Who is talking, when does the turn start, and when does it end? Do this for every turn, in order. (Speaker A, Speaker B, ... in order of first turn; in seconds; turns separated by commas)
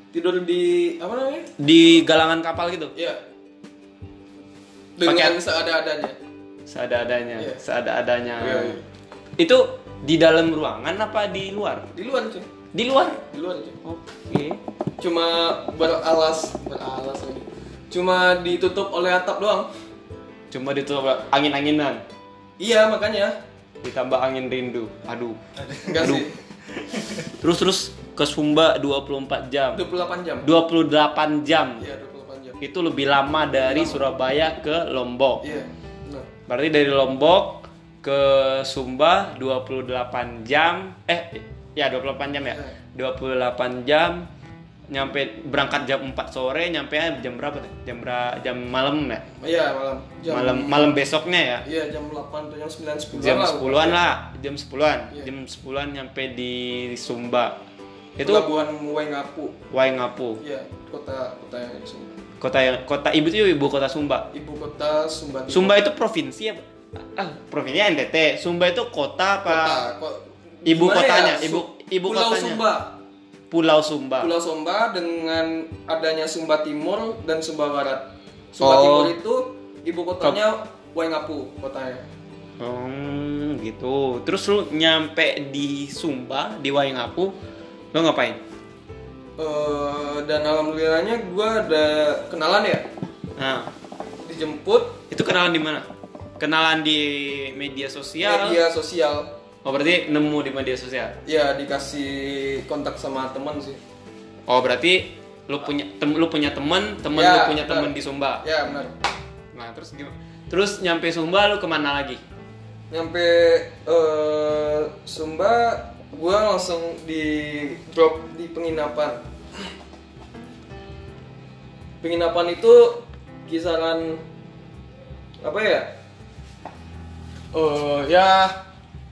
Speaker A: 0.1-1.5, Speaker B: 1.6-2.9, Speaker A: 3.0-3.2, Speaker A: 5.0-6.2, Speaker B: 5.0-5.4, Speaker B: 6.7-8.8, Speaker A: 7.4-7.6, Speaker A: 8.4-8.8, Speaker B: 9.4-11.9, Speaker A: 11.9-12.5, Speaker B: 12.7-13.2, Speaker A: 13.3-13.8, Speaker B: 13.8-14.6, Speaker A: 15.0-19.7, Speaker B: 20.5-22.0, Speaker A: 22.6-23.4, Speaker B: 23.8-26.3, Speaker A: 25.8-26.3, Speaker B: 27.3-29.8, Speaker A: 29.7-30.5, Speaker B: 30.4-31.8, Speaker A: 31.8-32.6, Speaker B: 32.6-35.4, Speaker A: 33.5-34.0, Speaker A: 35.4-36.3, Speaker B: 36.5-44.3, Speaker A: 42.5-42.8, Speaker B: 44.9-49.2, Speaker A: 49.4-51.0, Speaker B: 50.3-51.6, Speaker A: 51.6-54.0, Speaker B: 53.1-57.6, Speaker B: 58.2-58.5, Speaker A: 58.2-59.6, Speaker B: 59.7-60.4, Speaker A: 60.4-62.1, Speaker B: 62.4-64.3, Speaker A: 64.3-65.8, Speaker B: 65.5-69.8, Speaker A: 69.5-73.0, Speaker B: 70.7-72.6, Speaker B: 73.5-74.3, Speaker A: 74.2-82.1, Speaker B: 78.6-79.2, Speaker B: 82.6-87.3, Speaker B: 87.9-88.4, Speaker A: 89.4-92.9, Speaker B: 93.4-93.7, Speaker A: 94.2-95.0, Speaker B: 95.1-95.9, Speaker B: 96.4-98.6, Speaker A: 98.2-99.3, Speaker B: 99.6-101.2, Speaker A: 101.2-103.8, Speaker B: 104.5-108.5, Speaker A: 107.1-109.0, Speaker B: 109.5-112.2, Speaker A: 112.9-119.2, Speaker A: 122.0-124.2, Speaker A: 125.4-126.0, Speaker A: 127.5-128.6